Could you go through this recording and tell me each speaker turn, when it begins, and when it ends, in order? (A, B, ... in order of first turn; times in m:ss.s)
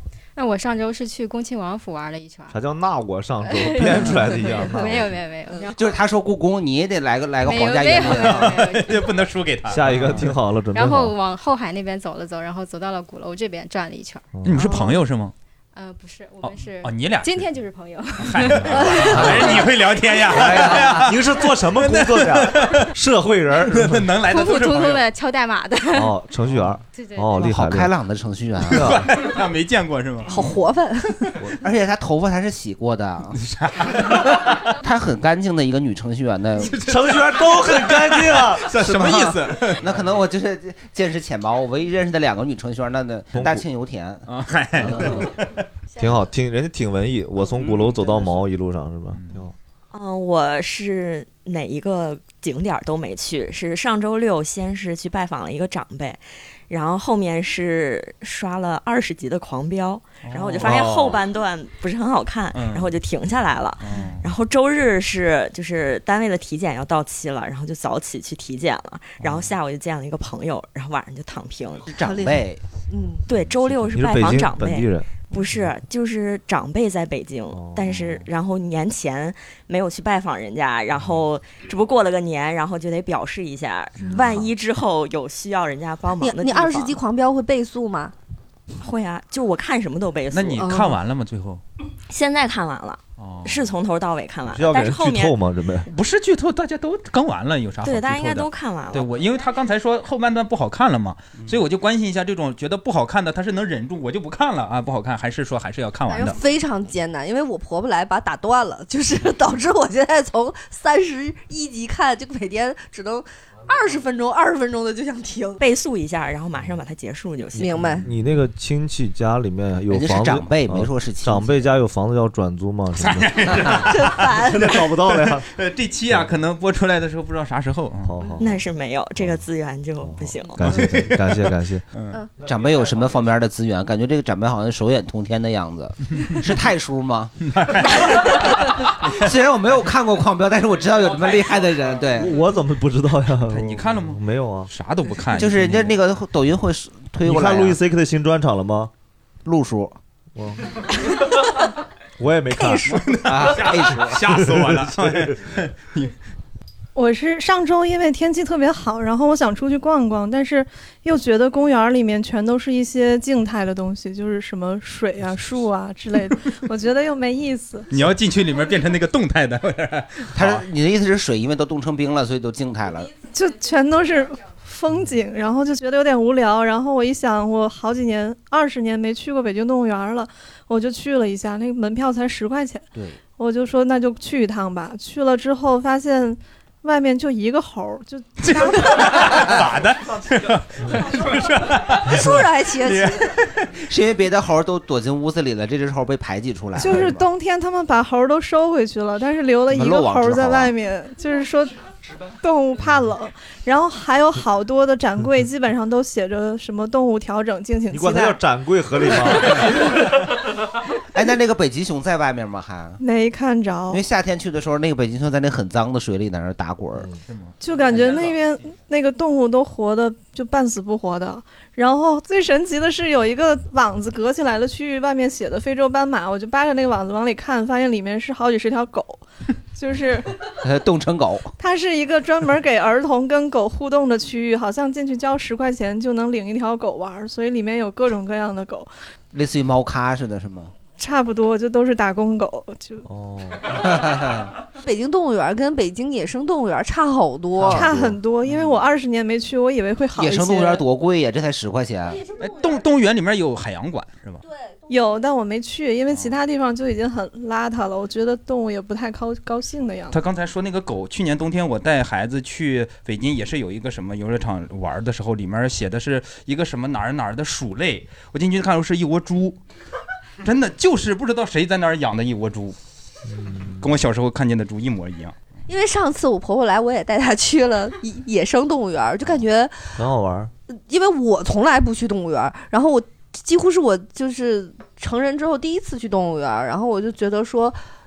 0:00.4-0:02.6 A
0:02.5-0:05.2 B
0:03.5-0:05.8 A
0:05.8-0:08.6 C
0:07.4-0:09.2 A
0:08.1-0:10.3 D
0:09.7-0:11.2 B
0:10.7-0:14.9 A
0:14.4-0:15.3 D
0:15.7-0:19.6 A
0:16.4-0:17.4 D
0:18.2-0:22.9 D
0:18.9-0:19.5 B
0:20.4-0:24.1 B
0:23.7-0:25.0 D
0:24.2-0:26.2 A
0:25.9-0:27.9 B
0:26.9-0:27.5 A
0:27.4-0:29.0 C
0:28.7-0:29.1 B
0:28.7-0:30.3 D
0:30.3-0:31.4 E
0:31.6-0:33.4 C
0:33.4-0:34.6 D
0:34.1-0:36.7 C
0:36.6-0:39.9 D
0:36.7-0:39.0 B
0:38.9-0:44.2 C
0:43.3-0:43.6 B
0:44.3-0:45.5 D
0:44.8-0:45.3 C
0:46.0-0:49.5 B
0:47.6-0:48.4 C
0:49.9-1:11.9 F
1:00.2-1:01.2 D
1:00.6-1:01.0 B
1:02.5-1:02.9 D
1:03.8-1:04.2 D
1:11.9-1:12.6 C
1:12.0-1:13.2 E
1:13.3-1:27.0 F
1:13.7-1:15.1 B
1:17.5-1:18.2 B
1:26.2-1:28.1 E
1:28.8-1:30.7 F
1:30.3-1:31.6 D
1:30.6-1:30.9 E
1:32.1-1:35.4 F
1:33.2-1:33.6 D
1:34.5-1:35.9 B
1:35.9-1:46.4 D
1:37.8-1:39.1 F
1:46.1-1:55.6 E
1:55.6-1:58.0 F
1:57.6-1:58.1 E
1:58.0-2:05.5 B
1:59.9-2:01.7 C
2:03.0-2:04.2 D
2:03.8-2:04.8 E
2:05.0-2:08.1 D
2:08.0-2:08.6 B
2:08.4-2:10.6 F
2:10.0-2:11.8 B
2:10.6-2:12.2 D
2:12.4-2:17.3 C
2:17.4-2:19.2 D
2:18.7-2:22.4 C
2:22.2-2:24.7 B
2:23.5-2:25.9 D
2:25.3-2:27.8 C
2:27.2-2:28.9 B
2:29.4-2:30.0 C
2:30.4-2:30.8 B
2:32.2-2:33.1 B
2:32.6-2:32.8 E
2:32.8-2:36.2 D
2:33.2-2:34.2 C
2:34.2-2:35.4 B
2:37.0-2:47.9 G
2:47.9-2:50.6 D
2:50.3-2:53.2 C
2:53.2-3:09.6 G
3:03.0-3:03.2 C
3:08.4-3:13.7 D
3:12.0-3:13.3 E
3:13.8-3:17.3 C
3:16.8-3:21.8 G
3:19.7-3:20.7 C
3:22.4-3:28.4 G
3:27.9-3:29.9 B
3:31.1-3:33.0 C
3:33.0-3:34.0 G
3:33.9-3:37.1 C
3:37.3-3:37.5 D
3:37.6-3:49.2 G
3:49.7-3:50.4 G
3:50.6-3:51.5 C
3:51.6-3:58.9 G
3:59.3-4:00.7 C
4:01.0-4:03.0 G
4:03.0-4:03.8 B
4:03.8-4:04.5 C
4:04.8-4:07.9 E
4:07.6-4:08.2 B
4:07.7-4:10.8 G
4:08.4-4:08.8 D
4:10.2-4:12.2 C
4:12.4-4:14.4 D
4:14.9-4:20.2 G
4:20.1-4:29.6 D
4:30.4-4:32.8 D
4:33.3-4:33.8 B
4:33.8-4:35.4 D
4:35.7-4:39.8 E
4:40.0-4:40.5 B
4:40.7-4:47.8 E